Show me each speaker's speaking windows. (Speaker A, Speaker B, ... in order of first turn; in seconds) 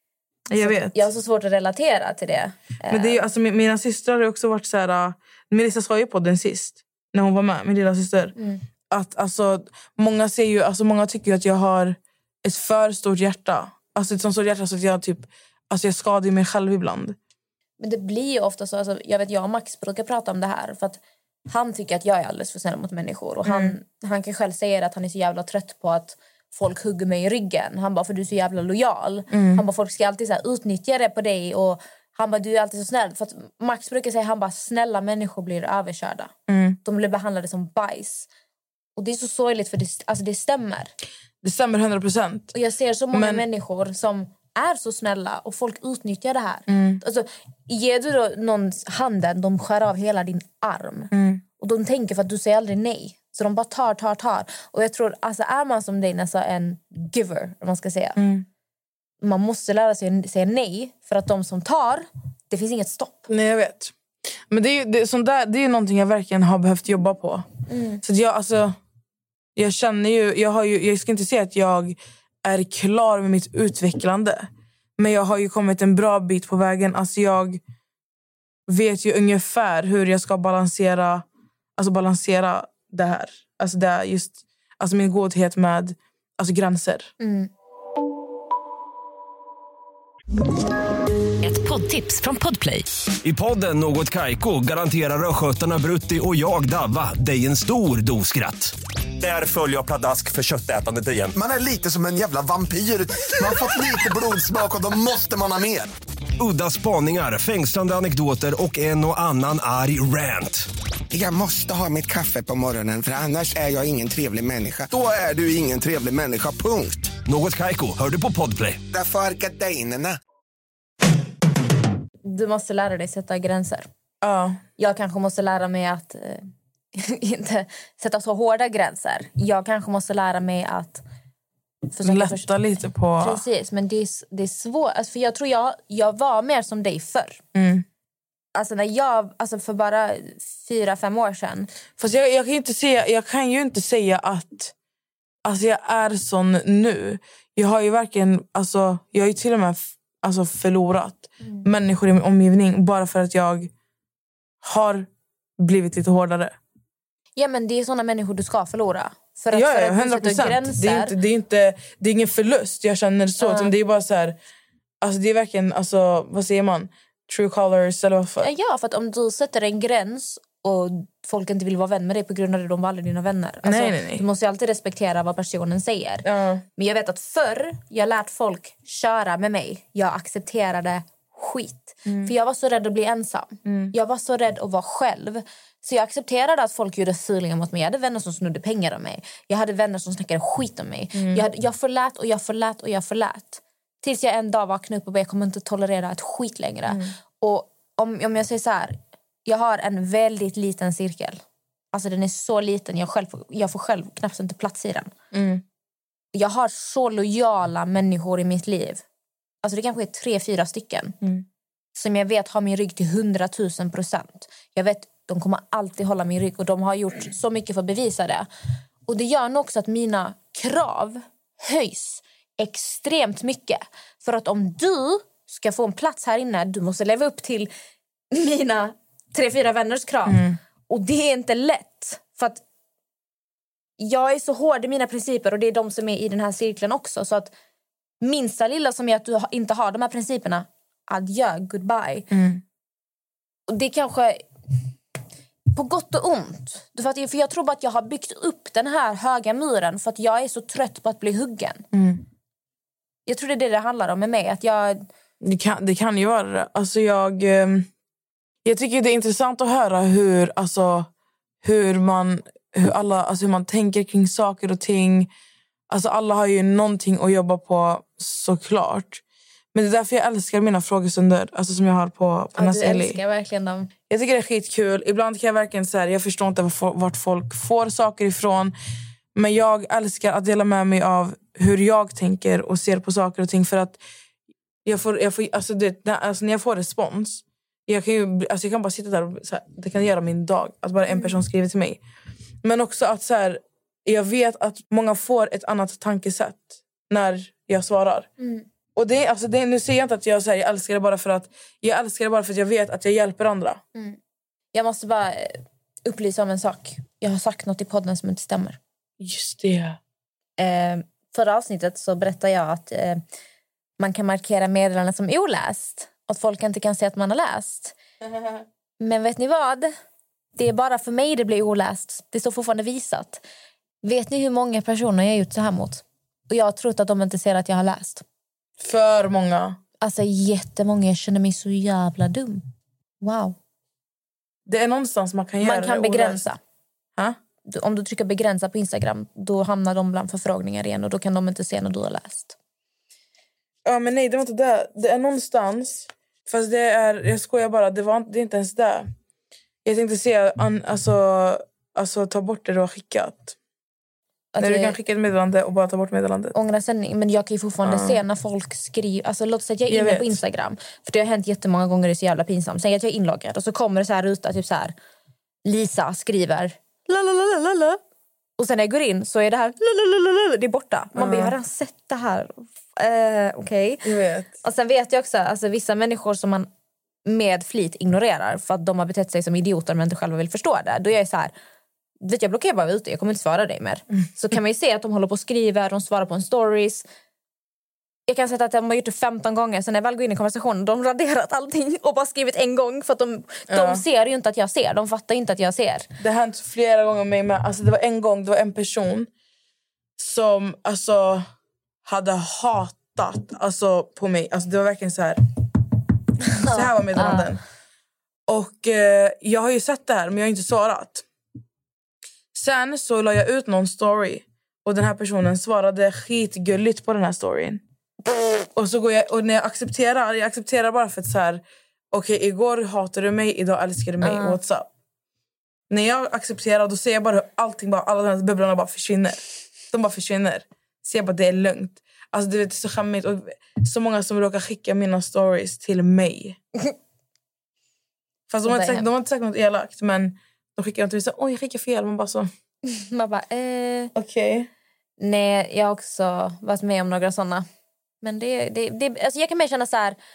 Speaker A: 0.5-1.0, 2.9-8.3, 8.9-17.2, 23.4-23.7, 29.3-29.6, 36.5-36.8, 41.4-42.5, 43.1-43.5, 46.7-47.0, 51.1-51.4, 58.2-58.5, 63.3-63.9, 64.5-67.5, 68.0-68.8, 69.5-77.6, 78.7-81.2, 81.8-87.1, 124.2-124.6, 132.0-133.4, 137.5-137.8, 142.0-144.7, 145.4-153.7, 154.6-155.1, 155.6-156.5, 159.5-164.4, 165.0-168.5, 173.6-174.2, 176.2-176.6, 182.1-182.3, 183.6-183.9, 191.1-191.4, 196.9-197.1, 205.3-205.6, 230.3-230.6, 242.3-242.6, 251.9-252.2, 255.4-257.9, 258.6-261.1, 261.6-265.3, 265.9-269.2, 269.7-273.2, 274.1-278.7, 279.3-284.0, 284.8-292.0, 292.6-298.3, 298.9-303.8, 309.2-310.0, 328.8-329.8, 334.6-336.4, 343.8-349.1, 349.8-353.6, 354.6-356.5, 357.8-358.2, 359.9-360.4, 371.1-371.5, 374.0-374.5, 393.7-394.0, 396.2-399.3, 400.2-401.4, 402.0-405.4, 406.6-407.6, 408.5-411.2, 412.5-417.8, 418.8-424.9, 425.9-436.6, 438.5-442.5, 444.1-444.7
Speaker B: 0.6-3.2, 8.4-8.6, 17.8-36.3, 36.8-38.3, 39.0-40.9, 42.5-58.2, 59.2-63.3, 67.7-68.0, 87.2-87.5, 122.2-123.9, 124.8-131.0, 131.9-132.5, 133.2-137.4, 138.5-141.7, 157.4-161.1, 163.4-163.7, 168.4-201.4, 201.9-205.1, 206.3-209.0, 209.6-211.1, 211.9-218.5, 219.1-227.7, 228.3-232.6, 234.0-237.5, 238.2-242.3, 243.7-244.5, 245.7-251.8, 253.2-255.1, 272.6-273.9, 291.1-291.4, 298.4-298.7, 304.7-308.8, 310.6-313.2, 314.0-318.0, 319.0-319.9, 320.6-323.4, 324.0-328.2, 330.0-332.6, 333.2-333.6, 335.6-336.6, 337.6-342.6, 354.5-354.9, 356.5-364.9, 365.6-368.0, 368.6-374.1, 374.6-376.7, 377.2-381.5, 382.2-387.1, 388.3-396.1, 406.5-407.5, 424.2-424.6, 438.6-439.1, 442.9-444.1, 445.2-447.6, 448.2-450.2
Speaker C: 91.4-101.3, 106.4-110.7, 117.2-118.8
Speaker D: 101.3-105.9, 111.1-117.2, 118.9-120.2